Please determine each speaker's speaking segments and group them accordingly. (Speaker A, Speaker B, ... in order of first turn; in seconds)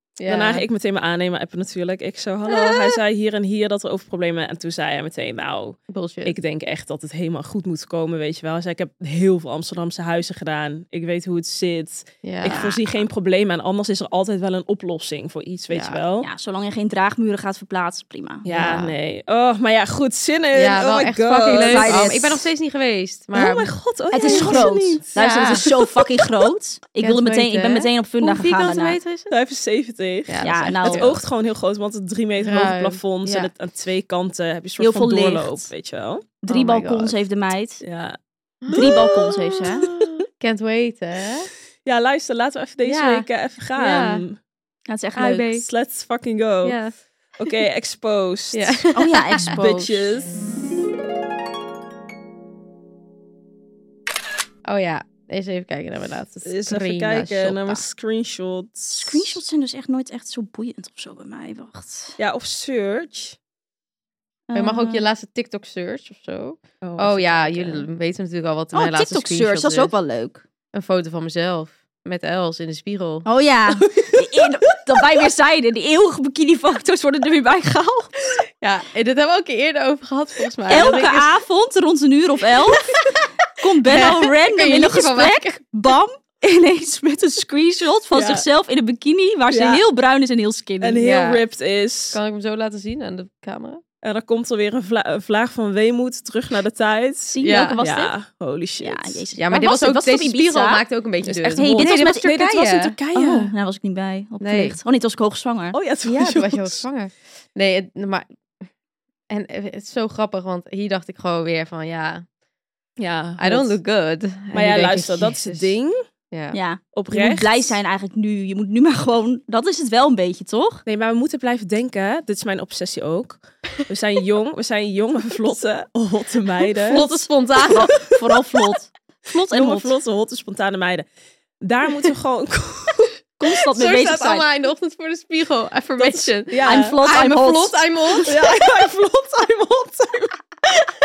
Speaker A: 0.2-0.7, 5.9-6.3, 12.2-12.7, 15.7-16.0, 18.5-18.9, 20.5-25.6, 27.0-29.3, 30.3-31.2, 32.4-33.5, 36.5-37.1, 38.6-41.5, 42.8-44.2, 46.6-46.9, 48.5-49.5, 54.6-57.8, 64.5-69.9, 70.7-73.2, 78.6-81.3, 83.9-85.6, 91.0-91.4, 92.1-93.8, 97.4-97.8, 99.4-103.0, 104.4-104.8, 106.1-108.3, 109.3-112.2, 113.4-115.7, 116.3-116.6, 126.8-127.9, 133.7-138.7
Speaker B: 0.2-16.3, 18.4-22.2, 23.3-26.1, 29.3-36.3, 37.8-38.2, 38.7-39.3, 41.8-44.4, 45.4-46.8, 47.4-50.3, 56.4-59.4, 62.2-63.4, 66.8-67.8, 74.0-74.3, 88.1-88.4, 89.5-89.8, 90.8-92.2, 94.0-99.2, 101.2-103.5, 105.7-106.8, 113.0-113.8, 114.5-116.0, 116.9-117.8, 120.8-127.1, 129.5-131.1, 131.6-133.2, 133.8-134.0, 136.0-137.0, 138.2-140.3
Speaker C: 2.5-2.9, 12.4-13.0, 16.2-18.4, 21.4-22.4, 24.1-29.0, 30.4-31.1, 34.8-35.7, 36.4-37.8, 38.7-39.9, 44.9-45.6, 48.9-50.0, 58.9-62.1, 64.5-65.0, 68.7-70.4, 73.2-78.1, 80.7-83.0, 83.6-91.0, 97.3-98.1, 98.8-100.8, 101.4-102.4, 103.1-105.8, 116.5-120.8, 127.7-129.9, 133.4-134.4, 136.6-138.2